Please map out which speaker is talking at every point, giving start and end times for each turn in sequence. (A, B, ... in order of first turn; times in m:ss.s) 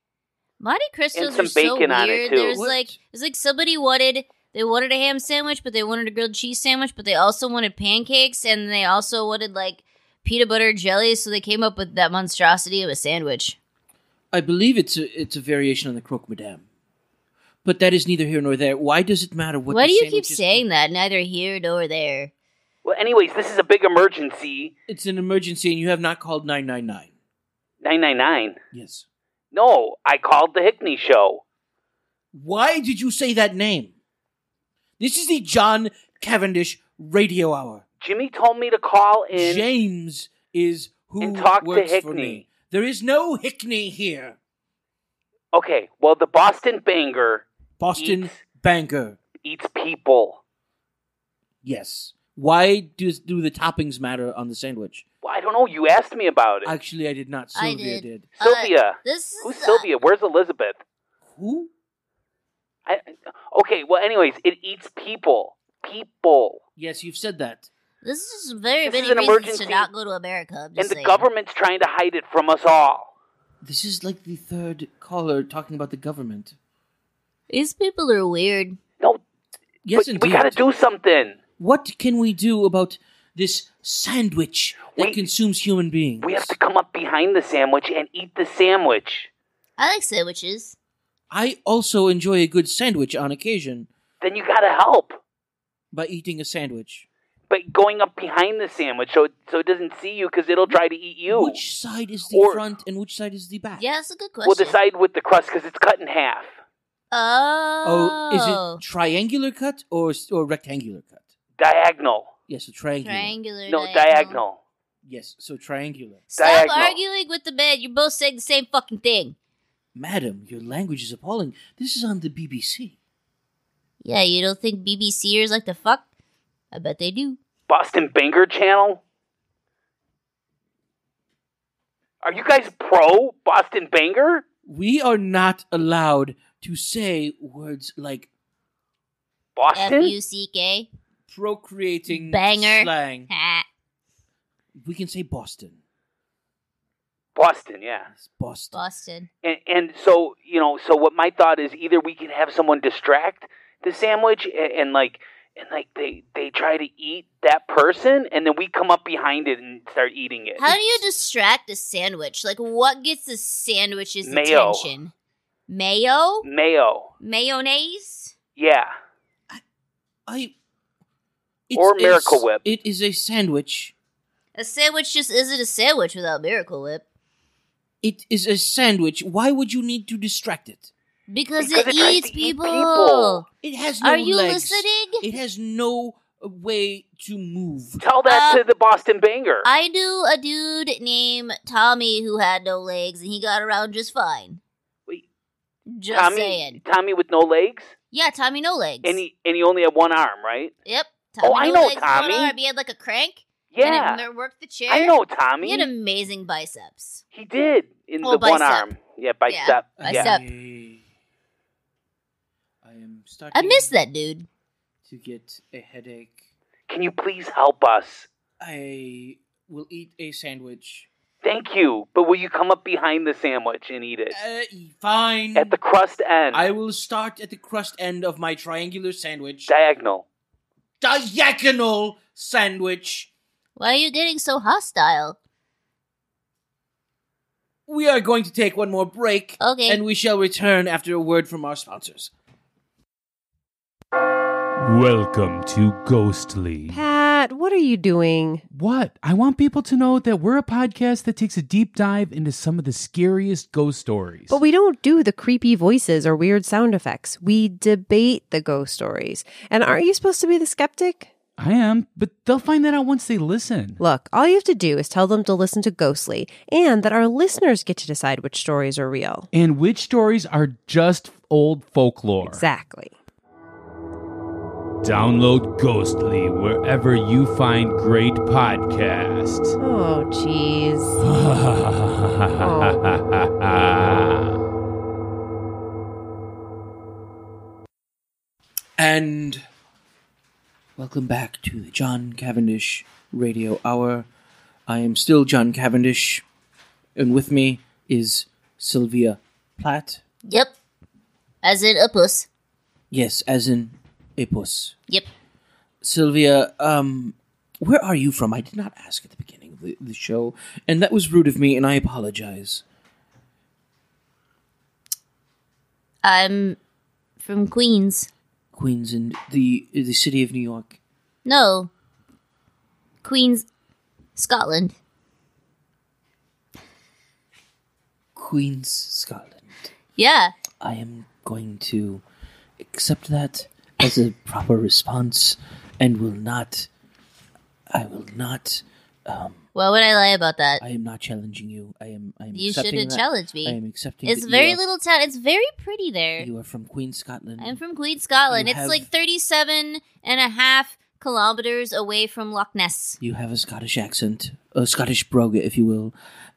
0:00.6-0:13.6 A
0:01.1-0:02.6 B
0:02.5-0:03.0 C
0:14.3-0:16.6 C
0:17.6-0:20.6 C
0:19.7-0:22.3 A
0:22.8-0:24.7 B
0:24.9-0:27.1 C
0:27.8-0:28.6 B
0:28.7-0:29.0 C
0:29.5-0:31.4 B
0:32.3-0:33.9 C
0:35.0-0:37.8 C
0:38.0-0:39.6 B
0:39.3-0:44.4 C
0:41.2-0:42.5 B
0:45.5-0:48.4 B
0:47.8-0:49.2 C
0:49.4-0:50.4 B
0:51.6-0:55.0 C
0:55.2-0:56.7 B
0:56.6-0:58.3 C
0:57.5-0:59.9 A
0:58.4-1:00.8 B
1:01.3-1:01.7 C
1:02.8-1:06.6 B
1:06.8-1:07.7 C
1:08.0-1:11.2 A
1:08.8-1:09.9 B
1:10.8-1:13.1 B
1:13.6-1:16.6 C
1:17.5-1:18.8 A
1:19.8-1:20.6 C
1:19.9-1:21.4 B
1:21.6-1:26.5 C
1:25.0-1:25.2 B
1:26.2-1:29.3 B
1:29.8-1:30.8 A
1:31.3-1:33.9 C
1:34.2-1:35.2 B
1:35.9-1:37.0 C
1:37.5-1:41.6 B
1:41.3-1:43.8 C
1:42.3-1:42.6 B
1:43.8-1:44.8 A
1:44.4-1:46.6 B
1:47.1-1:48.8 A
1:47.8-1:51.2 C
1:51.6-1:52.3 B
1:52.5-1:53.4 C
1:53.0-1:54.4 A
1:53.7-1:54.6 B
1:55.0-1:56.3 C
1:56.3-1:59.4 A
1:56.4-1:57.0 B
1:59.9-2:02.9 C
2:04.0-2:06.0 A
2:06.7-2:07.4 A
2:07.7-2:09.0 B
2:12.2-2:14.4 B
2:14.6-2:18.3 C
2:19.6-2:20.1 B
2:19.7-2:20.9 A
2:21.3-2:23.3 C
2:22.1-2:23.6 A
2:24.8-2:25.8 C
2:27.4-2:28.1 B
2:28.1-2:28.8 C
2:28.7-2:29.3 A
2:29.4-2:41.0 B
2:40.6-2:45.1 A
2:44.2-2:44.9 B
2:45.7-2:46.5 A
2:46.4-2:47.1 B
2:47.2-2:48.3 A
2:48.6-2:48.9 B
2:50.3-2:50.5 C
2:51.7-2:53.9 C
2:51.7-2:52.6 B
2:54.5-2:57.0 A
2:58.0-3:00.9 C
3:01.3-3:03.4 A
3:01.6-3:03.4 B
3:03.6-3:08.0 C
3:04.0-3:05.2 A
3:08.0-3:09.6 B
3:08.2-3:08.6 A
3:09.6-3:14.6 A
3:15.9-3:16.8 A
3:16.1-3:17.9 B
3:18.1-3:19.2 A
3:19.0-3:20.7 B
3:20.8-3:27.2 A
3:21.4-3:22.5 B
3:23.7-3:24.2 B
3:24.9-3:25.9 B
3:27.3-3:30.3 B
3:28.2-3:28.9 A
3:29.5-3:30.5 A
3:30.0-3:31.0 C
3:32.8-3:33.9 C
3:33.5-3:34.5 A
3:35.0-3:36.4 C
3:36.9-3:38.3 B
3:38.6-3:41.1 C
3:41.4-3:44.4 B
3:44.3-3:45.8 C
3:45.5-3:46.7 B
3:46.5-3:49.7 C
3:49.7-3:50.2 B
3:51.0-3:53.3 C
3:53.8-3:55.4 A
3:57.9-4:02.3 C
3:59.6-4:00.0 A
4:04.8-4:07.0 D
4:06.9-4:08.6 E
4:08.7-4:14.6 D
4:14.5-4:21.3 E
4:21.6-4:24.0 D
4:24.0-4:29.5 E
4:29.5-4:32.7 D
4:32.4-4:33.1 E
4:35.0-4:39.7 D
4:39.8-4:41.2 E
4:41.2-4:44.6 D
4:42.6-4:43.0 E
4:49.0-4:49.6 C
4:51.0-4:54.3 C
4:54.9-4:56.4 C
4:57.2-5:00.2 C
5:00.4-5:00.7 A
5:01.6-5:02.5 A
5:03.1-5:05.0 C
5:06.0-5:12.8 C
5:16.2-5:16.8 A
5:17.4-5:18.3 A
5:18.7-5:21.0 C
5:21.4-5:21.9 A
5:23.2-5:23.6 A
5:24.4-5:25.0 A
5:28.3-5:29.9 C
5:30.2-5:30.5 A
5:30.8-5:32.2 C
5:32.8-5:36.9 C
5:37.9-5:39.6 C
5:39.7-5:40.8 A
5:40.8-5:44.8 C
5:42.5-5:46.5 A
5:46.4-5:47.8 C
5:47.6-5:53.2 A
5:48.5-5:49.1 C
5:53.2-5:56.1 C